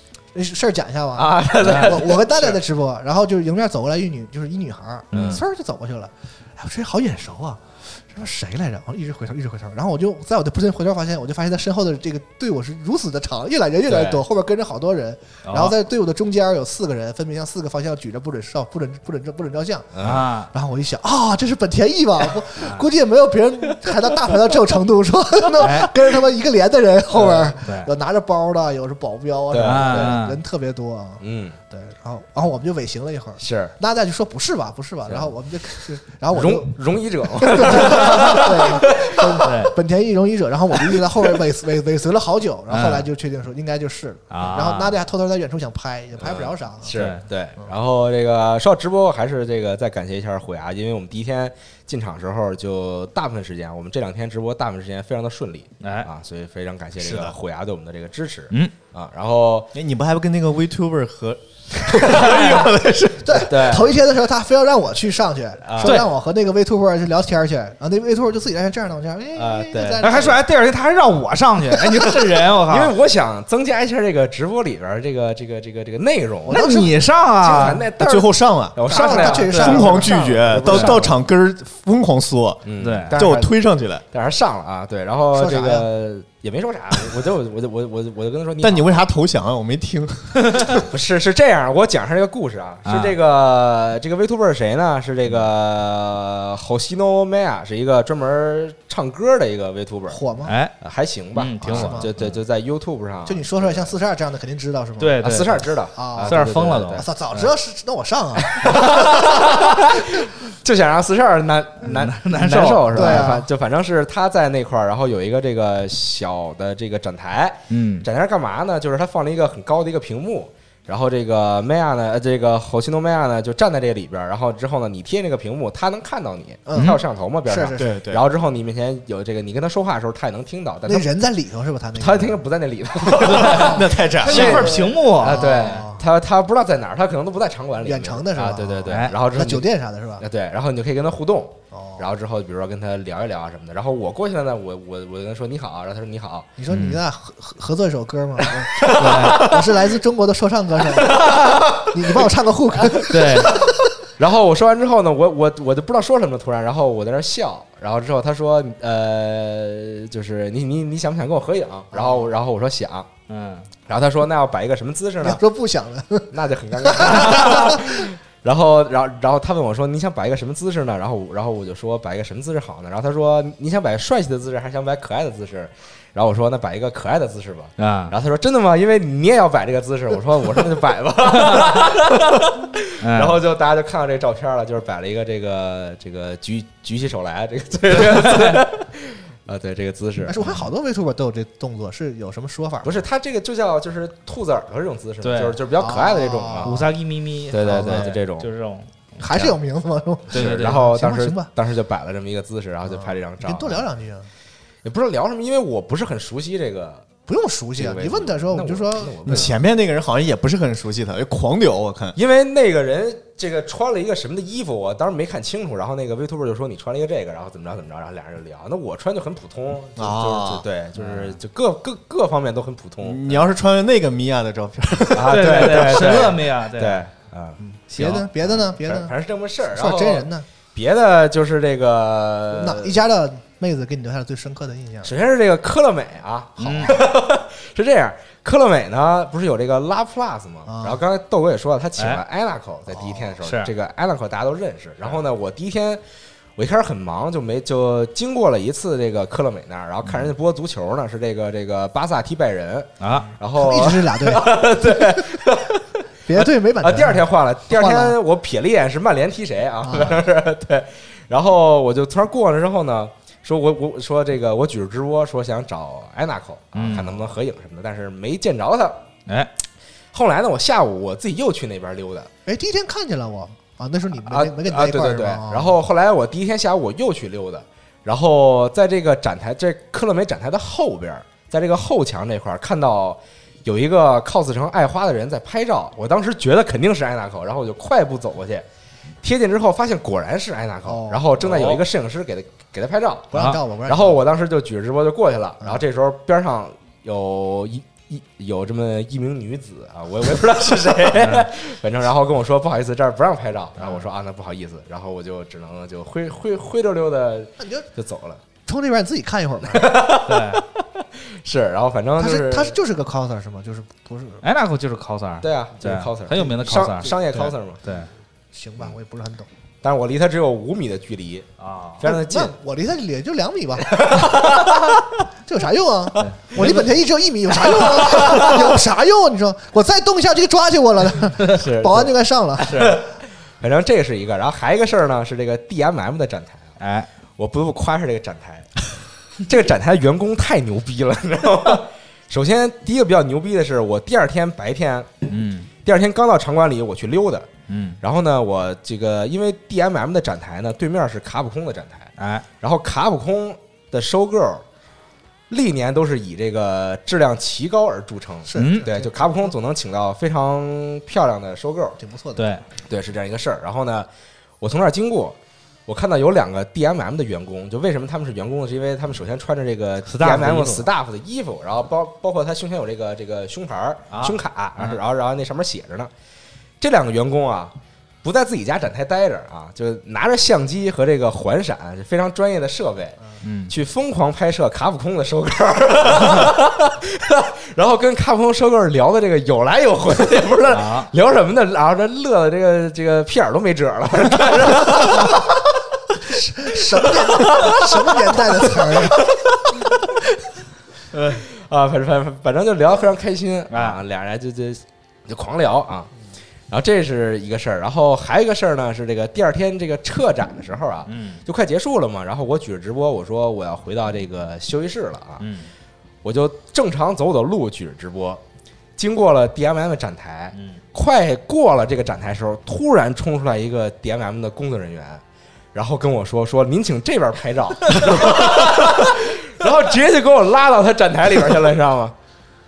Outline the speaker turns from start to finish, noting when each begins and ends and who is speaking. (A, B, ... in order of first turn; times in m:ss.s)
0:00.3-0:36.8 A
0:01.2-0:02.6 B
0:01.6-0:01.9 C
0:05.1-0:05.4 C
0:05.1-0:05.4 B
0:13.9-0:14.2 B
0:15.4-0:15.8 C
0:20.0-0:20.3 B
0:20.0-0:20.5 C
0:22.6-0:22.8 C
0:25.6-0:26.0 C
0:27.2-0:27.5 B
0:27.6-0:27.9 C
0:29.5-0:30.2 B
0:29.6-0:30.4 C
0:31.2-0:31.6 B
0:33.4-0:33.7 B
0:36.3-0:39.4 B
0:37.3-0:47.0 A
0:39.4-0:39.7 C
0:42.7-0:43.1 C
0:44.3-0:45.0 C
0:46.2-0:59.7 B
0:46.9-0:47.2 C
0:55.8-0:56.1 C
0:57.0-0:57.3 D
0:59.7-1:03.5 D
1:02.2-1:02.6 B
1:03.2-1:10.4 A
1:03.5-1:04.0 B
1:05.6-1:06.0 B
1:09.4-1:10.2 B
1:09.8-1:12.9 C
1:12.7-1:16.7 B
1:16.5-1:17.0 A
1:16.5-1:17.8 C
1:17.4-1:21.2 B
1:18.0-1:24.0 D
1:18.9-1:20.4 A
1:19.1-1:20.0 C
1:20.6-1:21.0 C
1:22.6-1:23.5 B
1:22.8-1:23.4 C
1:24.1-1:29.0 B
1:25.3-1:25.9 A
1:28.6-1:30.9 D
1:30.8-1:40.2 B
1:32.9-1:33.2 C
1:40.1-1:40.5 A
1:40.5-1:40.7 C
1:40.8-1:43.9 B
1:41.4-1:42.4 C
1:41.6-1:42.1 A
1:43.2-1:45.4 A
1:45.0-1:45.6 C
1:45.2-1:47.1 B
1:46.0-1:50.2 A
1:46.2-1:47.5 C
1:48.5-2:11.1 B
1:51.8-1:53.3 C
1:52.9-1:53.5 A
1:57.7-1:58.1 C
2:06.7-2:07.9 A
2:07.8-2:08.2 D
2:10.9-2:12.4 A
2:12.0-2:26.5 B
2:13.2-2:15.4 C
2:13.6-2:14.7 D
2:14.3-2:16.0 A
2:17.8-2:20.3 A
2:18.9-2:19.1 C
2:21.7-2:22.1 A
2:26.6-2:34.0 A
2:26.7-2:27.0 C
2:28.8-2:29.6 B
2:29.0-2:29.5 C
2:30.9-2:32.3 B
2:32.9-2:43.1 B
2:33.1-2:33.6 C
2:41.9-2:42.3 A
2:43.3-2:43.7 C
2:43.9-2:45.4 B
2:45.2-2:48.1 A
2:46.3-3:10.4 B
2:57.8-2:58.1 C
3:03.0-3:03.4 C
3:08.2-3:08.6 C
3:10.2-3:13.0 A
3:12.8-3:16.8 B
3:15.2-3:15.6 C
3:15.8-3:16.9 A
3:16.6-3:19.4 C
3:17.5-3:18.5 B
3:19.2-3:21.5 A
3:20.3-3:20.8 C
3:20.3-3:23.9 B
3:22.9-3:24.3 A
3:24.8-3:27.1 B
3:27.3-3:29.5 A
3:27.8-3:29.6 B
3:29.3-3:32.2 D
3:32.2-3:43.5 B
3:40.0-3:40.7 D
3:41.0-3:41.3 C
3:43.0-3:45.8 D
3:45.1-3:47.6 B
3:45.3-3:47.1 C
3:47.6-3:49.1 A
3:47.9-3:48.3 C
3:48.7-3:52.9 B
3:49.7-3:50.5 A
3:52.5-3:55.2 A
3:55.0-4:06.0 B
3:56.6-3:57.0 C
3:56.7-3:57.0 A
4:00.7-4:01.0 A
4:02.9-4:03.3 A
4:03.4-4:03.7 C
4:06.6-4:29.0 B
4:13.0-4:13.3 C
4:13.6-4:15.4 A
4:16.3-4:18.2 A
4:19.8-4:20.2 A
4:26.8-4:27.2 C
4:30.1-4:32.3 B
4:32.5-4:35.8 A
4:34.2-4:48.6 B
4:49.2-5:08.4 B
4:50.8-4:51.4 A
4:51.4-4:51.8 C
4:53.3-4:54.2 A
5:01.2-5:01.5 C
5:07.6-5:07.9 A
5:08.7-5:10.1 A
5:09.7-5:12.8 B
5:10.2-5:10.6 C
5:12.2-5:14.4 A
5:14.4-5:18.1 C
5:15.4-5:17.8 B
5:18.5-5:19.5 A
5:19.8-5:21.5 B
5:21.6-5:22.0 C
5:22.0-5:22.6 B
5:22.0-5:24.4 A
5:23.9-5:25.1 B
5:25.5-5:33.0 A
5:26.2-5:26.7 C
5:27.8-5:28.6 B
5:31.5-5:36.7 B
5:32.7-5:32.9 C
5:36.8-5:37.1 C
5:37.4-5:38.9 B
5:39.4-5:45.1 B
5:45.3-5:45.7 C
5:45.8-5:47.5 B
5:47.7-5:48.0 C
5:48.0-5:54.6 B
5:52.2-5:52.4 C
5:55.5-6:02.0 B
5:58.5-5:59.6 A
5:58.6-5:58.9 C
6:02.0-6:02.4 A
6:02.4-6:02.6 C
6:02.9-6:04.1 B
6:04.6-6:05.4 B
6:05.9-6:16.1 B
6:10.1-6:10.9 C
6:14.1-6:15.0 C
6:16.8-6:35.6 B
6:23.4-6:23.7 C
6:30.7-6:31.1 C
6:36.3-6:39.3 A
6:36.4-6:40.0 B
6:41.6-6:46.1 B
6:43.7-6:44.0 C
6:46.7-6:55.4 B
6:51.1-6:51.4 C
6:55.4-6:55.7 C
6:56.2-6:58.4 B
6:59.0-7:05.2 B
7:00.5-7:00.8 C
7:05.7-7:12.2 B